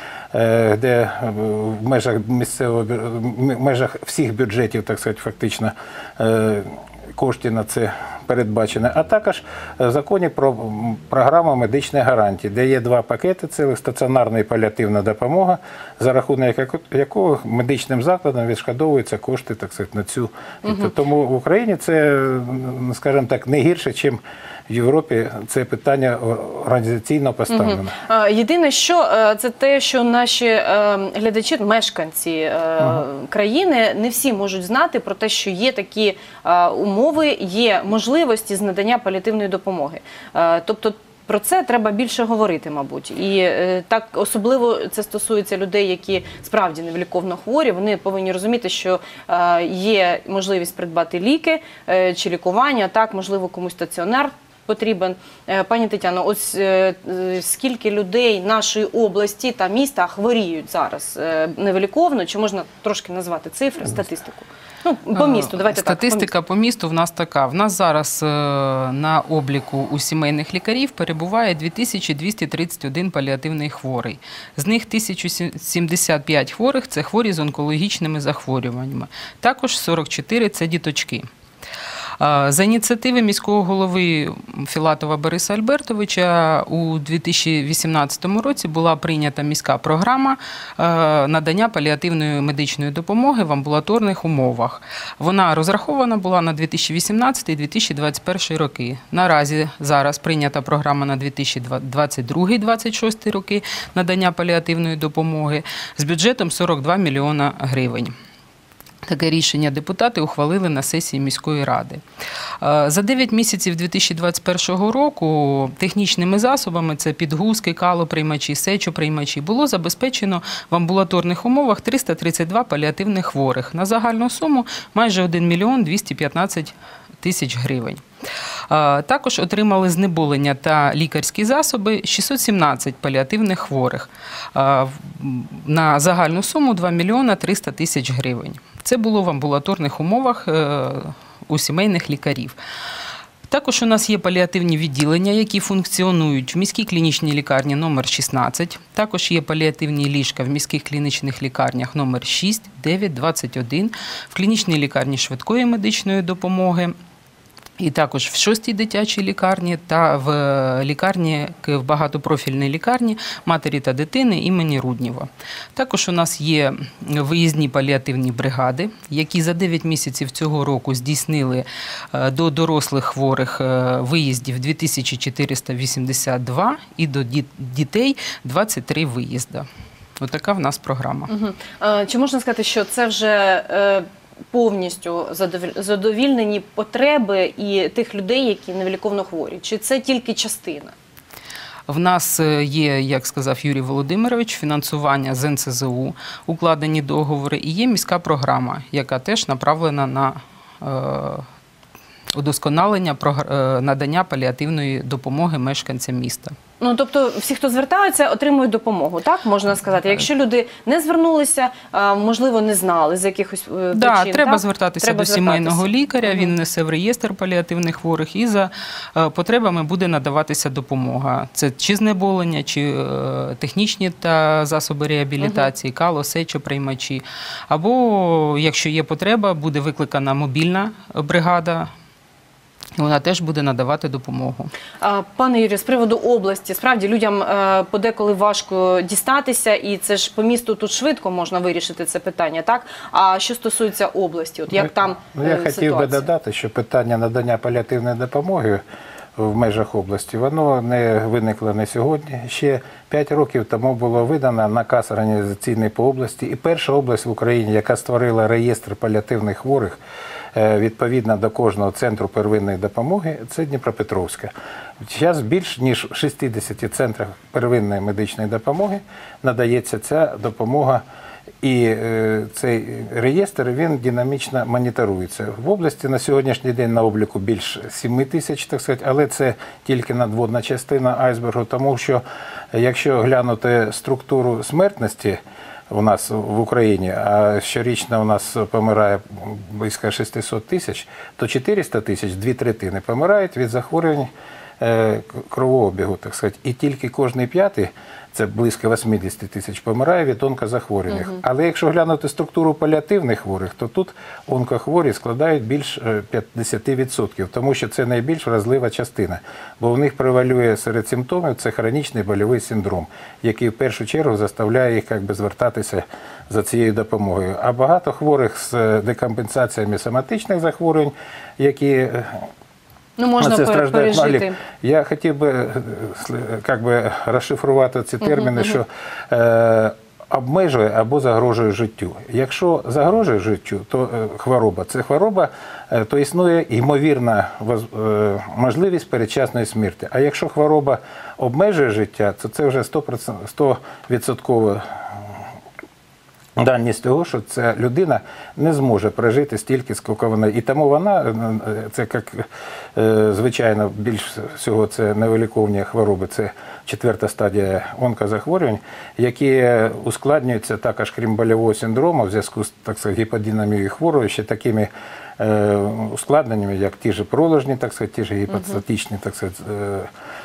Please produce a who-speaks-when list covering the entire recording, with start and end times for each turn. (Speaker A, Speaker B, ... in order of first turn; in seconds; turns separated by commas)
Speaker A: 0.3-27.9, Speaker B: 20.6-20.9, Speaker B: 27.5-66.3, Speaker C: 65.1-81.2, Speaker C: 82.2-108.1, Speaker C: 109.1-112.0, Speaker C: 112.6-128.0, Speaker C: 128.7-142.6, Speaker C: 143.5-156.9, Speaker C: 157.8-179.7, Speaker C: 180.2-181.3, Speaker B: 181.3-190.9, Speaker C: 191.9-201.4, Speaker C: 202.3-206.5, Speaker B: 206.8-216.5, Speaker C: 213.9-231.9, Speaker B: 225.4-225.7, Speaker C: 233.0-234.7, Speaker B: 235.0-246.3, Speaker A: 244.8-248.8, Speaker A: 249.4-260.0, Speaker A: 260.5-271.0, Speaker A: 271.6-322.5, Speaker B: 301.1-301.4, Speaker B: 323.2-324.6, Speaker A: 323.4-345.4, Speaker B: 328.2-328.8, Speaker A: 346.6-370.1, Speaker B: 368.5-368.8